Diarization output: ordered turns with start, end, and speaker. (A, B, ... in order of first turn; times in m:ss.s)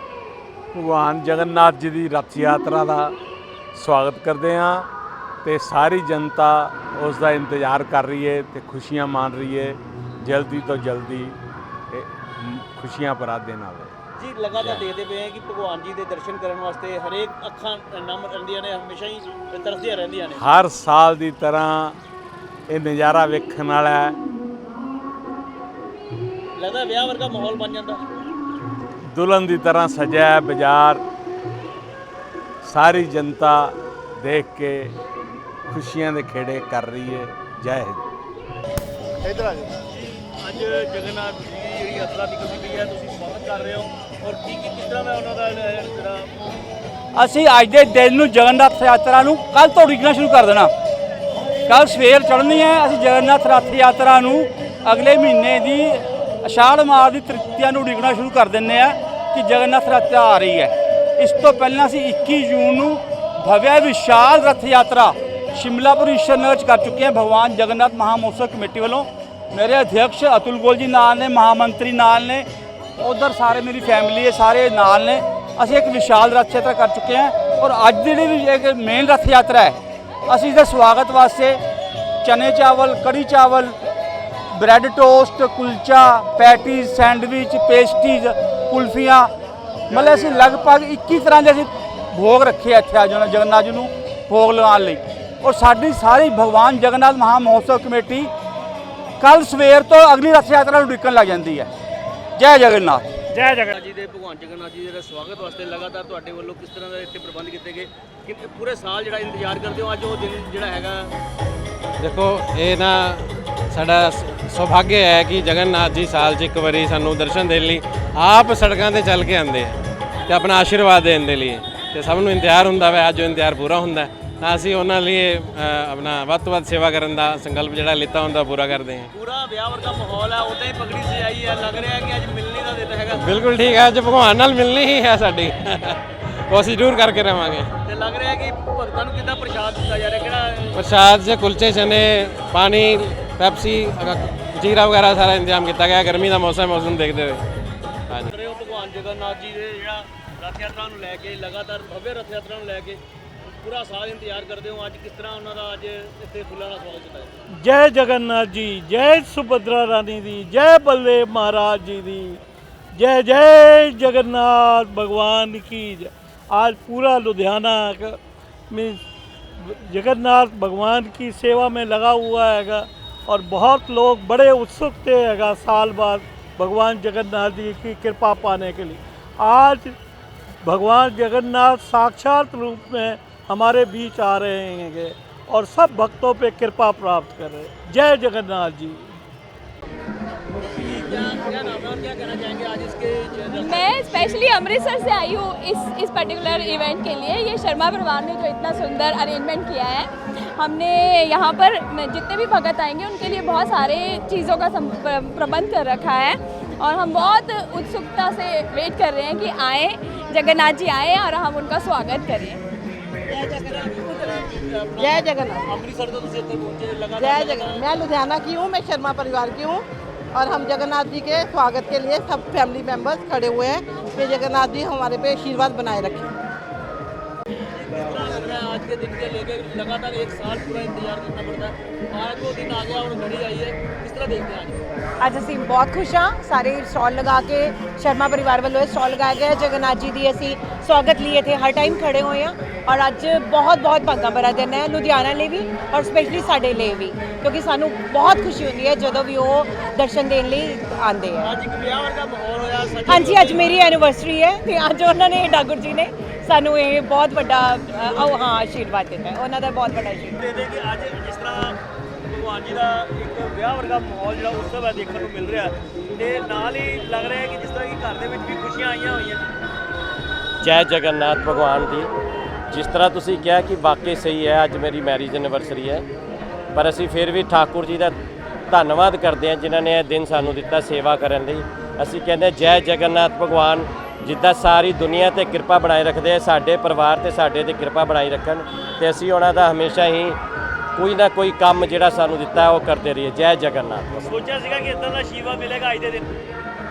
0:00.7-0:03.2 A
0:03.8-0:04.9 A
0:05.4-0:11.4 A
0:11.9-0:13.9 A
0:14.2-0:20.5 B
0:14.6-0:14.8 A
0:20.4-0:22.0 A
0:22.7-0:24.2 A
0:26.6-0:28.0 B
0:29.0-0:31.0 A
0:32.6-0:35.0 A
0:35.7-0:38.0 A
0:39.2-0:46.3 B
0:47.2-0:50.7 C
0:51.7-1:12.4 C
1:13.0-1:21.6 C
1:22.2-1:23.8 C
1:24.5-1:29.3 C
1:29.9-1:38.3 C
1:39.2-1:41.7 C
1:42.4-1:43.0 C
1:43.4-1:51.1 B
1:52.0-2:09.1 D
2:09.1-2:13.3 B
2:13.1-2:17.7 D
2:17.9-2:20.8 B
2:20.7-2:27.4 D
2:28.3-2:33.0 B
2:33.6-2:37.4 B
2:37.5-2:42.4 E
2:43.0-2:48.2 E
2:48.7-2:49.0 E
2:49.6-2:59.9 E
3:00.6-3:09.1 E
3:10.7-3:13.9 B
3:13.5-3:32.6 F
3:33.3-3:37.8 B
3:35.0-3:35.5 G
3:37.2-3:46.3 G
3:47.8-3:54.8 B
3:55.2-4:11.5 H
4:11.4-4:14.0 B
4:13.1-4:20.4 H
4:18.0-4:18.5 B
4:20.4-4:21.8 B
4:22.3-4:29.4 B
4:30.6-4:32.1 I
4:32.7-4:36.0 I
4:36.7-4:38.2 I
4:38.7-4:50.4 I
4:51.0-4:54.3 I
4:54.3-4:56.3 B